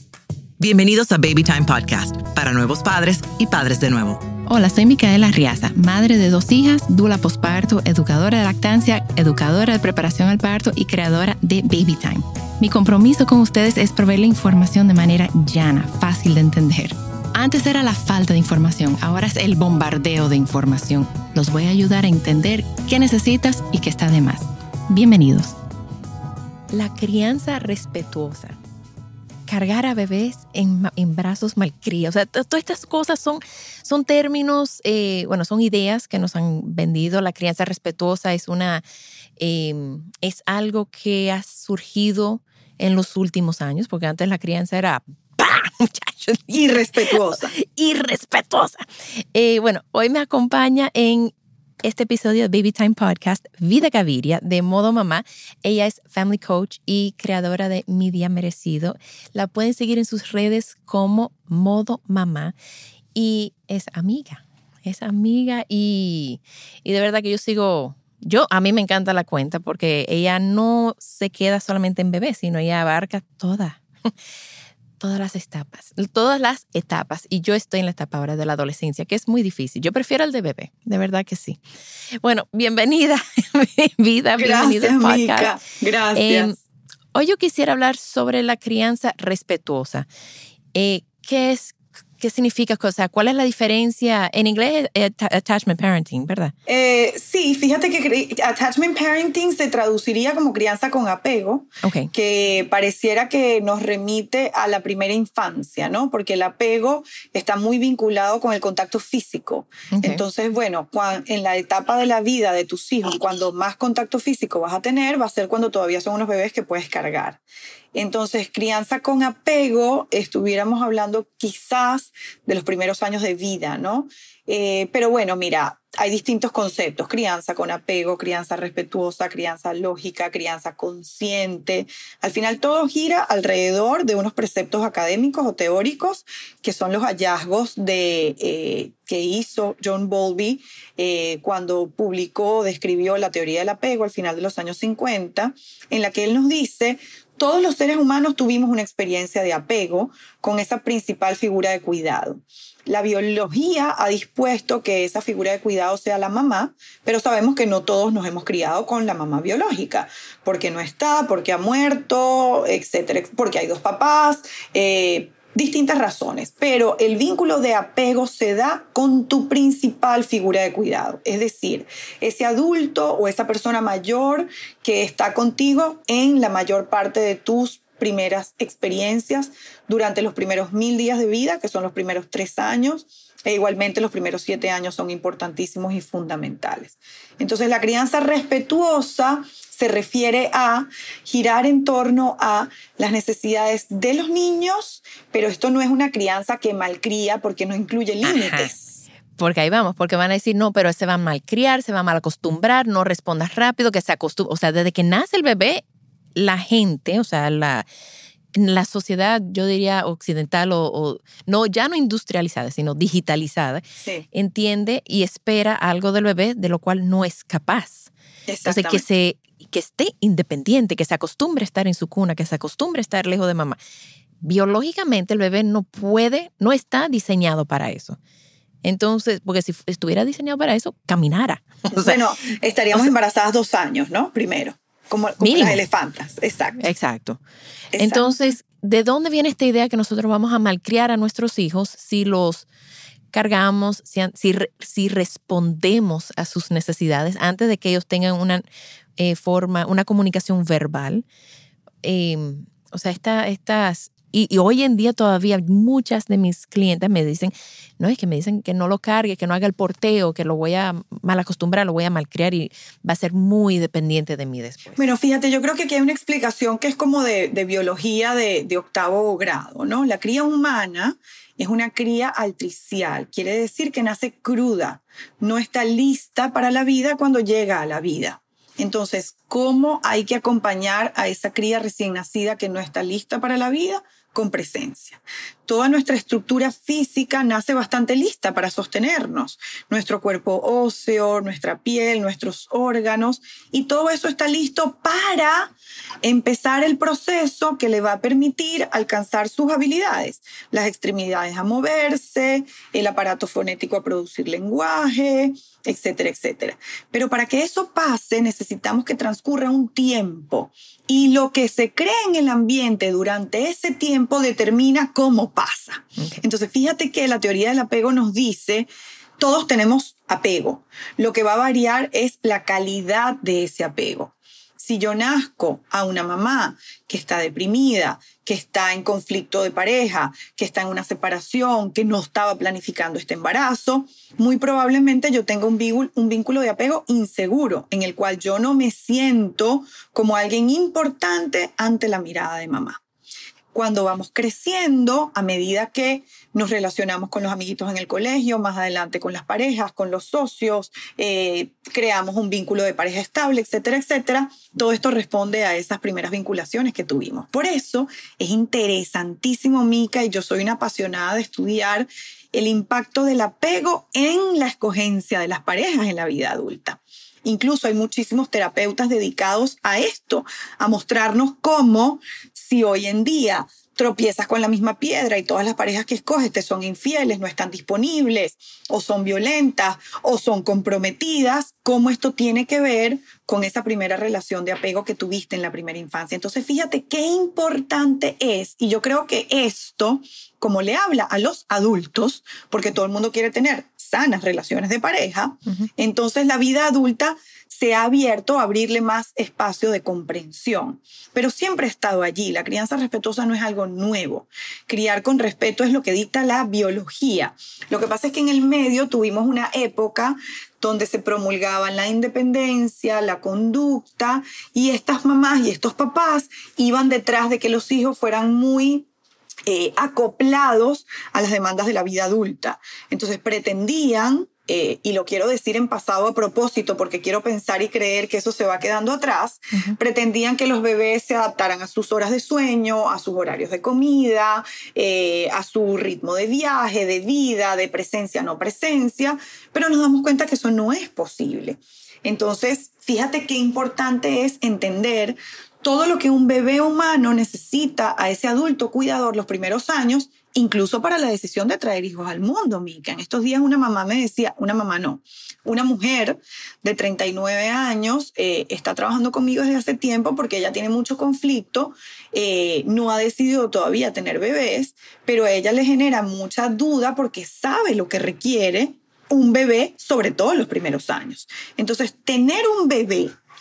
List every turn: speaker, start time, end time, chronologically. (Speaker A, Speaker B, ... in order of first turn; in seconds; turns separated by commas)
Speaker A: 0.6-4.2, Speaker B: 4.5-25.6, Speaker B: 26.7-28.6, Speaker B: 29.5-38.8, Speaker B: 39.4-51.3, Speaker C: 46.5-47.5, Speaker B: 51.8-62.5, Speaker B: 63.1-73.8, Speaker B: 75.0-81.6, Speaker B: 82.2-85.6, Speaker C: 84.4-86.6, Speaker B: 86.2-86.6, Speaker B: 87.1-90.1, Speaker B: 90.7-96.5, Speaker C: 96.7-117.4, Speaker B: 101.8-102.1, Speaker B: 109.9-110.2, Speaker C: 117.9-198.9, Speaker B: 198.2-198.7, Speaker B: 199.4-205.8, Speaker B: 206.4-207.9, Speaker B: 208.5-218.1, Speaker C: 214.0-214.3, Speaker C: 218.5-219.1, Speaker B: 218.7-223.8, Speaker B: 224.4-228.2, Speaker B: 228.8-232.2, Speaker C: 231.9-236.9, Speaker B: 235.4-235.8, Speaker B: 236.8-237.4, Speaker C: 237.9-238.3, Speaker B: 237.9-242.7, Speaker B: 243.3-248.6, Speaker B: 249.2-251.2, Speaker B: 252.0-265.1, Speaker C: 265.0-343.0, Speaker B: 316.2-316.4, Speaker C: 343.7-419.1, Speaker C: 419.7-473.4